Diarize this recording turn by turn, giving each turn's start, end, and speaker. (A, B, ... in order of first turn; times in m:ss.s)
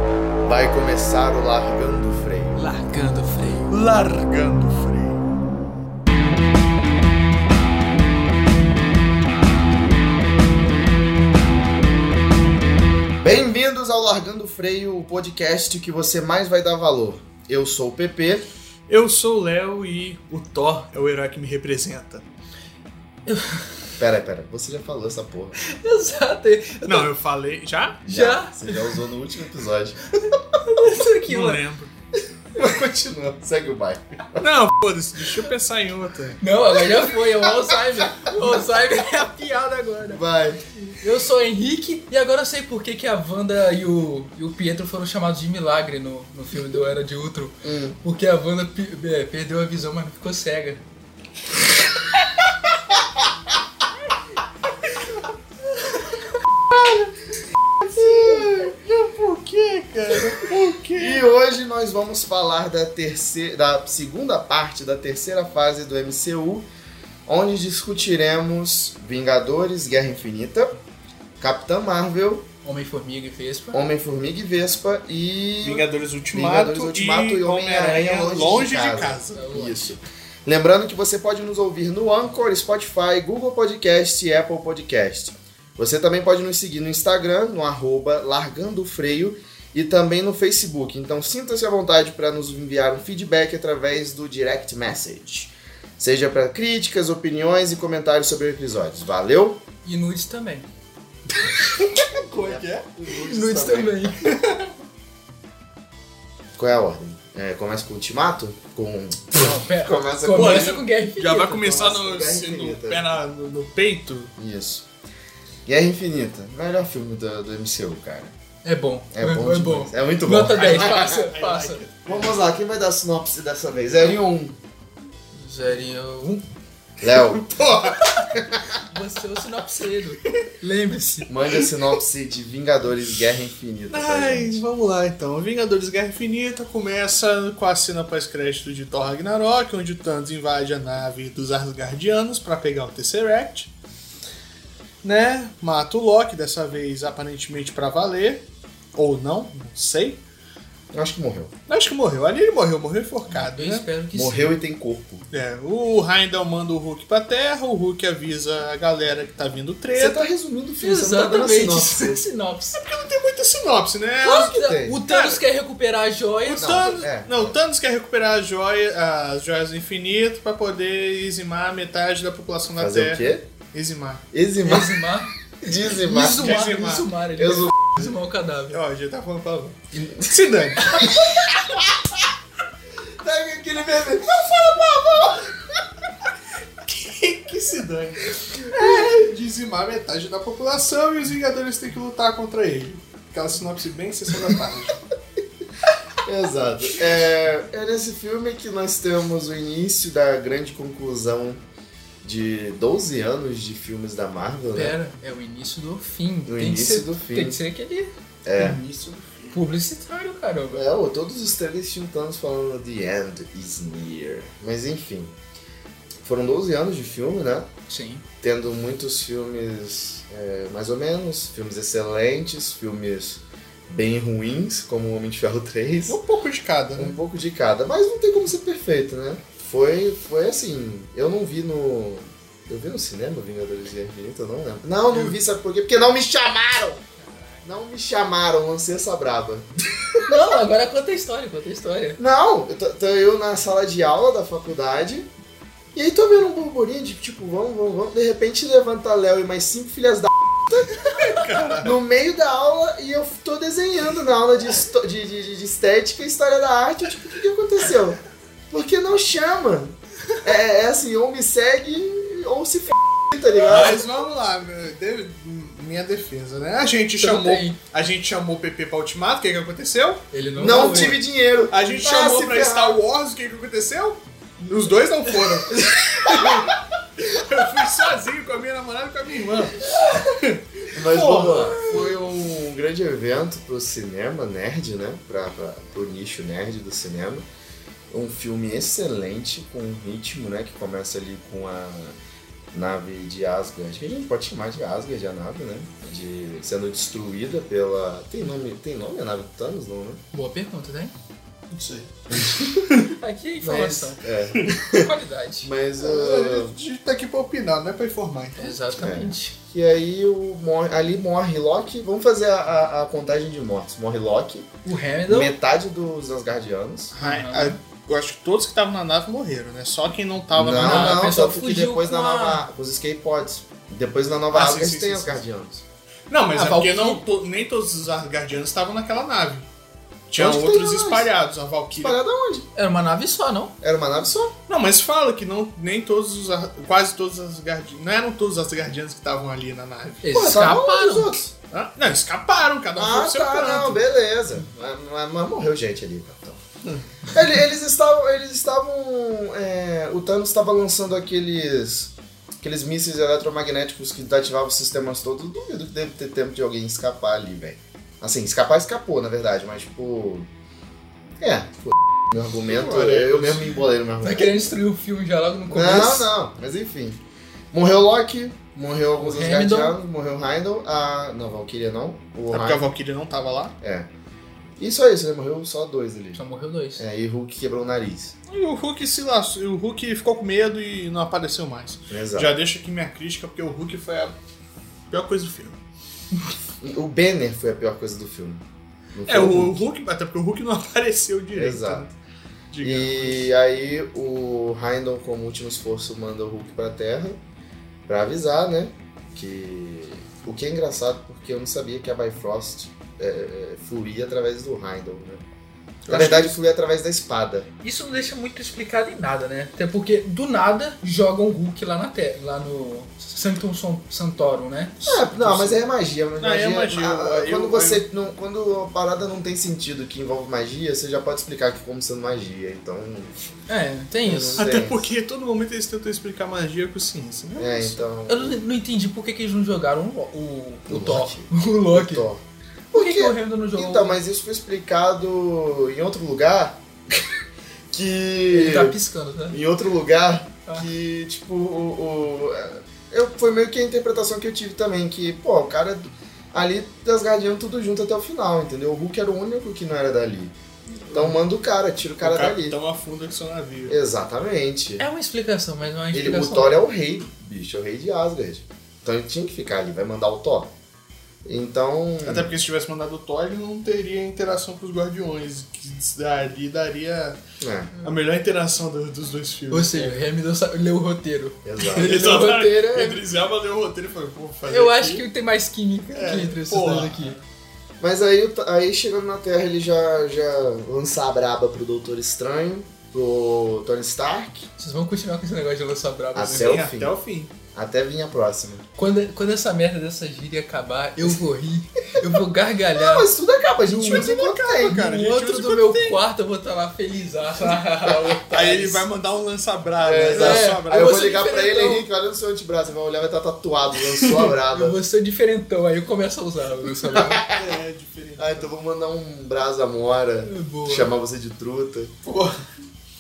0:00.4-0:02.6 A
0:02.6-0:03.8 B
0:03.7-0:05.2 C
0:13.2-0:18.5 A
0:18.9-0:22.2 C
0:23.3-0:23.7 B
0:24.0-0:25.6 A
0:25.6-0:27.1 B
0:26.8-0:28.0 C
0:28.0-0:30.0 A
0:28.1-0:29.0 B
0:30.6-0:31.6 B
0:31.3-0:31.9 C
0:32.5-0:34.5 A
0:34.4-0:36.4 C
0:36.4-0:40.2 B
0:36.9-0:38.4 A
0:40.1-0:40.6 A
0:40.8-0:50.8 B
0:47.6-0:48.0 A
0:52.9-0:53.2 A
0:58.0-0:58.6 A
0:58.0-1:01.2 C
1:01.0-1:06.7 A
1:07.3-1:10.8 A
1:11.4-1:12.5 A
1:12.6-1:13.8 B
1:13.7-1:39.6 A
1:15.6-1:19.4 C
1:19.4-1:19.8 B
1:39.8-1:40.7 B
1:41.8-1:42.9 C
1:42.3-1:44.3 A
1:43.1-1:44.2 B
1:44.2-1:44.7 C
1:46.6-1:50.8 A
1:49.4-1:51.6 B
1:50.3-1:54.3 C
1:51.4-1:53.1 A
1:54.4-1:54.8 A
1:55.7-1:58.3 A
1:58.6-2:01.8 B
1:59.1-2:01.2 A
2:00.5-2:02.4 C
2:02.1-2:04.6 A
2:05.4-2:06.4 B
2:07.0-2:08.7 A
2:07.1-2:08.1 C
2:08.8-2:11.3 B
2:11.3-2:14.6 A
2:13.9-2:23.7 C
2:25.0-2:30.2 C
2:30.9-2:31.5 A
2:31.7-2:33.9 C
2:33.4-2:34.6 B
2:34.1-2:35.2 A
2:35.3-2:40.3 C
2:39.9-2:42.2 A
2:40.8-2:42.8 B
2:42.8-2:45.4 C
2:44.2-2:47.0 B
2:44.5-2:45.0 A
2:46.4-2:54.2 C
2:46.6-2:47.6 A
2:52.8-2:53.4 A
2:54.3-2:55.0 A
2:54.6-2:55.3 B
2:55.6-2:56.6 A
2:55.9-2:58.8 B
2:56.4-2:57.1 C
2:57.4-2:57.9 A
2:58.7-3:01.2 C
3:01.3-3:02.2 A
3:03.2-3:05.8 A
3:06.9-3:15.0 C
3:08.7-3:09.1 A
3:16.2-3:21.6 A
3:22.2-3:25.0 A
3:24.8-3:28.1 B
3:26.4-3:27.6 A
3:28.4-3:28.8 A
3:28.6-3:29.5 C
3:29.5-3:30.8 B
3:30.7-3:35.4 A
3:36.2-3:37.7 A
3:37.9-3:38.2 B
3:38.4-3:46.2 A
3:46.1-3:47.2 C
3:47.0-3:57.0 A
3:55.1-3:55.4 B
3:57.2-3:57.6 B
3:57.6-4:00.4 A
4:00.2-4:02.2 B
4:02.2-4:05.3 A
4:05.9-4:18.2 A
4:11.2-4:11.9 C
4:18.7-4:24.0 A
4:23.7-4:30.2 C
4:27.2-4:27.8 B
4:30.3-4:31.2 B
4:30.6-4:33.0 A
4:31.7-4:42.0 C
4:35.7-4:36.7 A
4:40.9-4:47.5 A
4:41.7-4:42.0 B
4:48.1-4:52.2 A
4:52.7-5:00.2 A
5:00.3-5:01.1 B
5:01.7-5:03.1 C
5:02.3-5:02.6 A
5:03.1-5:04.2 B
5:03.6-5:05.1 A
5:04.8-5:05.7 B
5:05.6-5:06.7 A
5:06.0-5:08.8 C
5:08.6-5:09.5 B
5:08.9-5:14.7 A
5:14.8-5:15.6 B
5:15.3-5:17.1 A
5:17.1-5:21.2 C
5:17.2-5:17.8 B
5:20.5-5:25.8 A
5:20.8-5:22.7 B
5:24.5-5:25.4 C
5:26.3-5:29.7 C
5:26.6-5:27.2 B
5:30.3-5:32.2 C
5:30.4-5:31.3 A
5:31.9-5:32.7 A
5:32.8-5:33.7 B
5:33.8-5:34.5 A
5:34.7-5:40.2 C
5:40.2-5:41.3 B
5:40.3-5:41.5 A
5:41.7-5:44.0 C
5:43.0-5:46.6 A
5:47.3-6:00.5 A
6:01.4-6:04.7 A
6:02.6-6:03.8 C
6:04.2-6:06.3 B
6:05.7-6:07.2 A
6:07.7-6:12.9 A
6:09.2-6:10.0 B
6:12.5-6:13.8 C
6:13.8-6:14.1 A
6:14.8-6:16.4 A
6:16.4-6:17.0 B
6:17.0-6:18.4 A
6:18.5-6:24.3 C
6:22.1-6:22.6 A
6:25.1-6:25.8 C
6:26.8-6:29.8 A
6:29.3-6:32.1 C
6:31.5-6:32.1 A
6:32.7-6:33.5 C
6:32.8-6:37.4 A
6:38.1-6:45.4 A
6:46.1-6:46.6 C
6:46.1-6:47.7 A
6:47.8-6:55.1 B
6:55.1-6:55.8 C
6:55.1-7:03.4 A
6:56.4-6:58.0 C
7:03.7-7:04.6 B
7:04.2-7:05.1 A
7:04.6-7:08.0 C
7:07.6-7:08.6 A
7:08.3-7:12.3 B
7:10.9-7:19.0 A
7:12.9-7:14.2 B
7:18.5-7:19.6 B
7:19.5-7:30.6 A
7:31.1-7:32.8 A
7:32.2-7:34.0 C
7:33.9-7:35.0 A
7:35.0-7:36.8 B
7:36.1-7:40.7 A
7:41.4-7:42.5 A
7:42.2-7:47.4 C
7:47.6-7:47.9 A
7:48.0-7:50.0 C
7:49.7-7:52.9 B
7:51.6-7:53.2 A
7:52.0-7:55.3 C
7:54.7-7:57.4 B
7:56.1-7:57.4 C
7:58.0-8:04.7 A
8:04.8-8:06.8 B
8:06.4-8:07.2 A
8:06.5-8:07.5 C
8:07.7-8:08.8 A
8:09.0-8:13.3 B
8:12.9-8:15.0 A
8:13.8-8:16.2 C
8:14.9-8:19.1 B
8:18.5-8:21.4 C
8:20.0-8:25.0 A
8:20.3-8:22.1 B
8:24.2-8:24.5 C
8:24.7-8:27.4 B
8:27.0-8:27.7 A
8:27.5-8:28.7 C
8:28.4-8:32.1 A
8:30.4-8:31.1 B
8:32.2-8:32.6 C